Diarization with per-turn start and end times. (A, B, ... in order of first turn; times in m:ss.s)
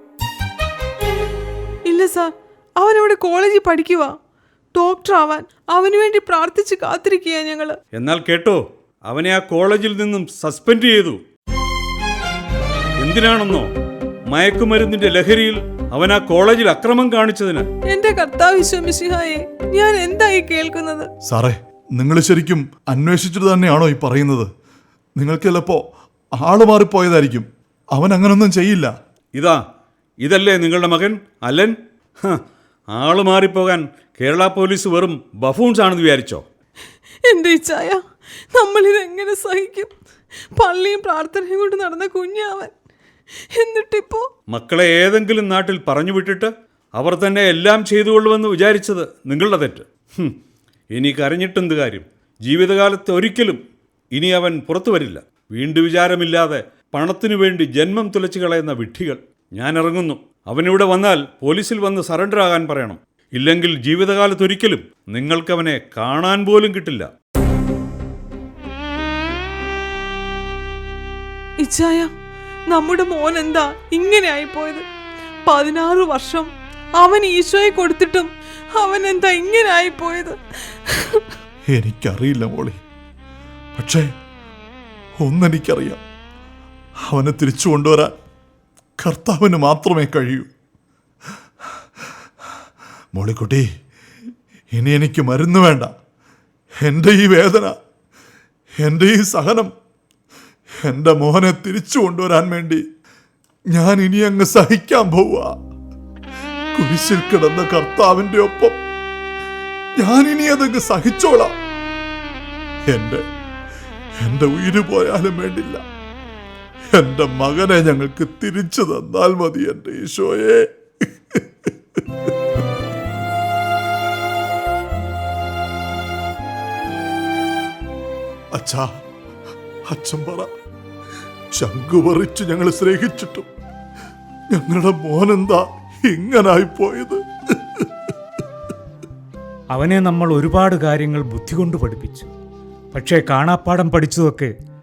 0:01.9-0:04.1 A
0:04.7-0:07.8 A
0:07.9-0:11.2 B
0:13.0-0:13.7 B
0:14.3-0:17.7 B
0:17.9-0:21.1 A
0:21.3-0:24.5 C
0:25.2-0:25.8 C
0:26.4-0:28.9 C
0:30.2-0:32.4 B
0:32.9-0:36.4 B
0:37.2-0:38.0 A
0:38.5-0:39.9 A
0:40.5-0:42.7 A
0:43.5-0:44.3 A
0:44.5-0:50.4 B
0:50.9-0:53.6 B
0:54.1-1:07.1 B
1:11.6-1:12.1 A
1:12.7-1:14.8 A
1:15.5-1:21.2 A
1:21.7-1:22.8 C
1:23.7-1:24.1 C
1:25.2-1:26.0 C
1:27.0-1:28.1 C
1:29.0-1:30.5 C
1:33.1-1:33.7 C
1:34.7-1:35.9 C
1:36.8-1:37.8 C
1:38.8-1:39.7 C
1:40.8-1:42.8 C
1:43.7-1:45.5 C
1:46.7-1:48.8 C
1:50.0-1:51.5 C
1:52.9-1:53.2 C
1:54.2-1:55.8 C
1:56.9-2:02.0 C
2:08.5-2:08.9 C
2:09.9-2:10.5 C
2:11.5-2:13.5 C
2:14.5-2:17.9 C
2:19.7-2:22.3 D
2:22.9-2:24.5 D